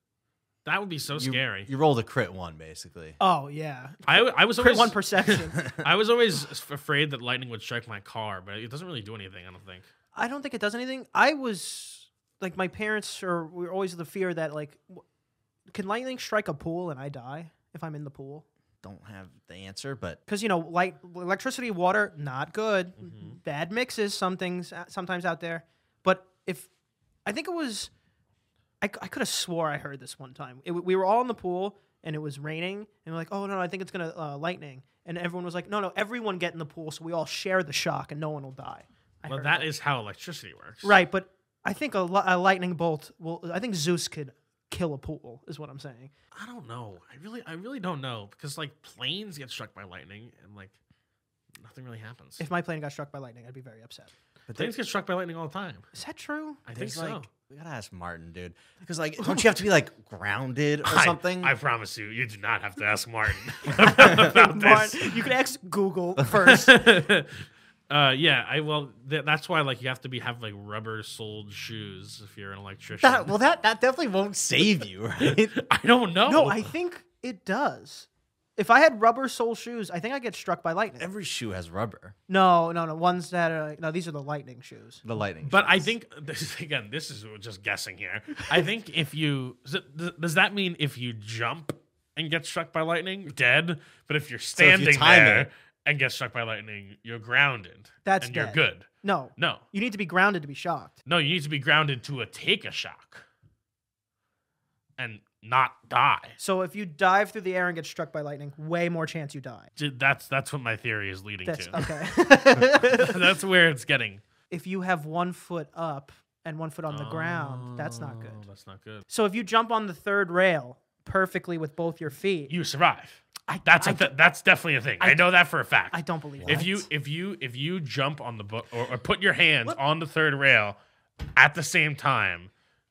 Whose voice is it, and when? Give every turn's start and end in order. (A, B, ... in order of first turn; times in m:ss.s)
0:00.6-0:01.7 A
0:01.1-0:03.2 B
0:03.2-0:05.6 C
0:04.1-0:09.9 A
0:10.2-0:15.0 C
0:15.7-0:18.5 C
0:18.8-0:20.2 B
0:20.3-0:26.7 C
0:23.0-0:23.4 A
0:27.2-0:27.9 C
0:28.8-0:39.7 C
0:39.3-0:41.0 A
0:40.8-0:46.1 C
0:46.3-0:50.8 A
0:51.6-0:52.4 A
0:52.4-0:54.1 C
0:54.5-0:54.8 B
0:54.6-0:55.8 A
0:55.9-0:56.6 C
0:56.7-0:57.3 A
0:56.7-1:01.6 B
0:59.2-0:59.5 C
1:00.9-1:05.2 A
1:04.1-1:06.8 C
1:06.3-1:13.3 A
1:13.0-1:15.5 B
1:15.2-1:16.7 A
1:16.3-1:21.1 C
1:21.0-1:22.2 B
1:22.3-1:25.0 C
1:25.0-1:25.9 B
1:25.5-1:39.6 A
1:34.6-1:35.5 B
1:38.0-1:40.9 C
1:41.1-1:43.2 A
1:45.0-1:46.4 A
1:46.4-1:49.7 C
1:49.8-1:51.8 A
1:51.4-1:53.2 C
1:52.6-1:54.2 A
1:54.5-1:58.4 C
1:56.9-1:59.1 A
1:59.1-2:02.5 C
2:02.5-2:10.8 A
2:03.5-2:04.1 C
2:05.0-2:05.3 C
2:05.9-2:06.9 C
2:06.4-2:06.7 B
2:11.3-2:12.5 A